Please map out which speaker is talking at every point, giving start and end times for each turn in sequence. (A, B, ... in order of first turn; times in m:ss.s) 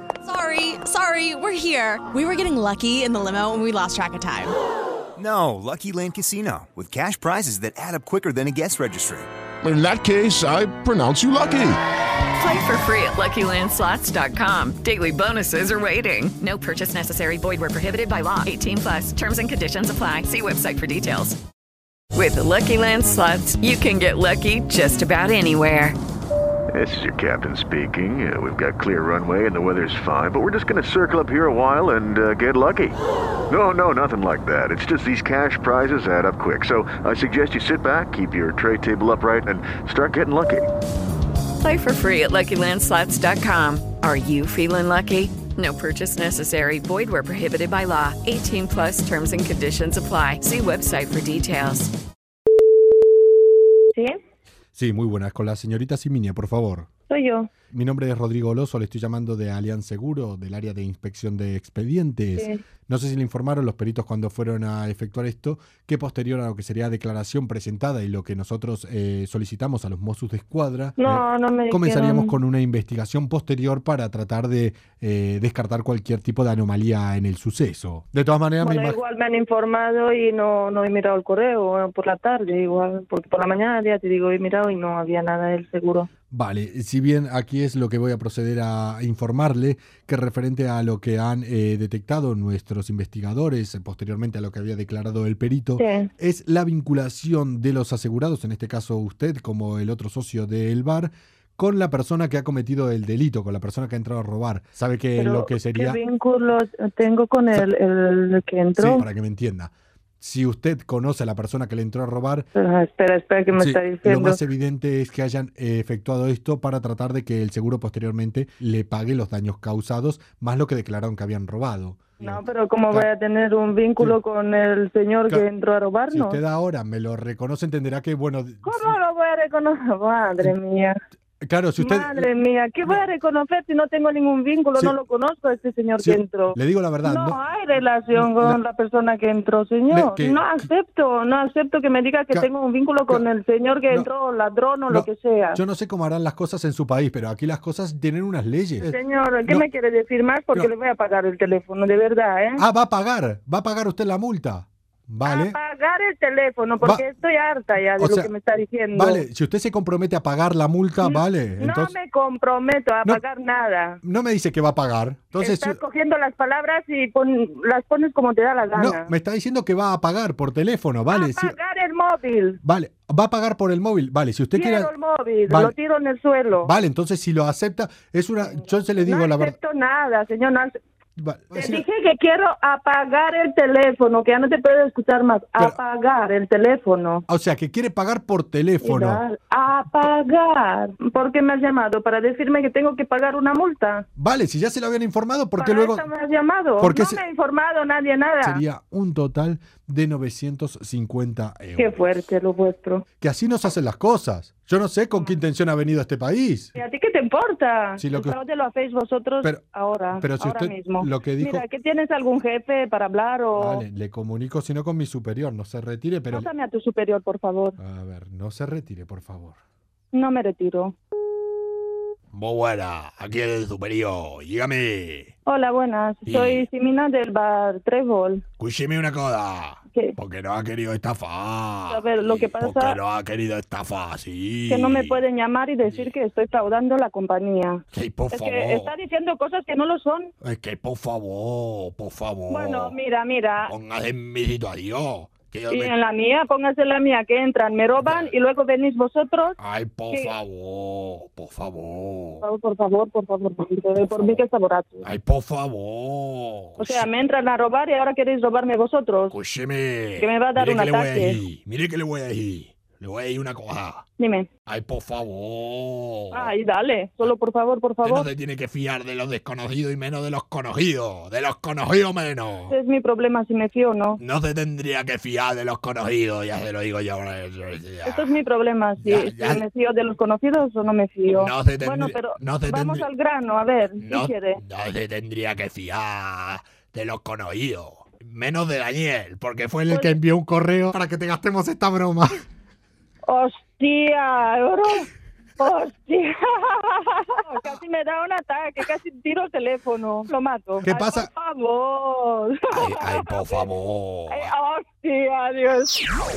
0:00.3-0:04.5 A
0:05.2-0:09.3 B
0:09.6-0:11.8 C
0:12.4-0:21.4 D
0:22.1-0:26.0 D
0:26.7-0:33.0 E
0:33.5-0:40.7 E
0:41.6-0:51.9 D
0:54.7-0:56.9 F
0:57.1-0:57.5 G
0:57.7-1:19.0 F
1:11.0-1:12.3 G
1:18.6-1:26.1 G
1:26.3-1:46.0 F
1:35.8-1:36.1 G
1:45.2-1:49.0 G
1:48.8-1:52.5 F
1:52.5-1:54.4 G
1:53.5-2:03.1 F
2:02.2-2:06.4 G
2:06.1-2:08.9 F
2:08.6-2:10.9 G
2:11.4-2:12.3 F
2:11.8-2:25.6 G
2:16.0-2:17.4 F
2:18.1-2:18.6 F
2:19.9-2:20.7 F
2:24.9-2:29.6 F
2:28.8-2:32.6 G
2:32.6-2:35.6 F
2:35.2-2:39.2 G
2:38.0-2:38.3 F
2:38.9-2:41.9 F
2:41.0-2:44.0 G
2:44.0-2:45.8 F
2:45.4-2:49.1 G
2:48.7-2:51.5 F
2:51.1-2:52.6 G
2:52.6-2:54.9 F
2:54.5-2:56.7 G
2:55.4-2:55.7 F
2:56.6-2:59.6 F
2:58.4-3:00.8 G
3:01.2-3:01.8 F
3:01.5-3:07.2 G
3:07.3-3:09.2 F
3:08.8-3:14.0 G
3:14.2-3:16.1 F
3:15.6-3:18.6 G
3:16.8-3:17.2 F
3:18.4-3:22.1 F
3:21.8-3:23.0 G
3:23.2-3:26.7 F
3:26.8-3:33.8 G
3:28.0-3:28.4 F
3:30.1-3:31.6 F
3:33.6-3:36.5 F
3:36.3-3:37.8 G
3:37.8-3:39.6 F
3:40.1-3:40.9 G
3:42.3-3:45.3 H
3:45.4-3:48.4 G
3:46.3-3:46.7 H
3:48.6-3:55.2 H
3:51.9-3:53.0 G
3:54.7-4:00.3 G
3:55.8-3:56.1 H
3:57.9-3:58.9 H
4:00.4-4:02.9 H
4:02.5-4:03.7 G
4:03.6-4:05.9 H
4:05.7-4:09.6 G
4:08.0-4:08.3 H
4:09.6-4:12.4 H
4:12.4-4:15.0 G
4:14.1-4:14.4 H
4:15.0-4:17.0 H
4:16.8-4:19.4 G
4:19.3-4:24.0 H
4:20.2-4:21.4 G
4:24.2-4:24.5 G
4:24.7-4:26.5 H
4:26.3-4:28.3 G
4:28.0-4:32.7 H
4:32.7-4:34.2 G
4:34.2-4:38.4 H
4:38.0-4:44.6 G
4:39.0-4:39.6 H
4:41.3-4:43.0 H
4:44.0-4:50.2 H
4:49.9-4:50.1 G
4:50.1-4:52.4 F
4:53.2-5:03.7 G
5:00.8-5:01.3 F
5:02.7-5:04.5 H
5:04.3-5:06.0 G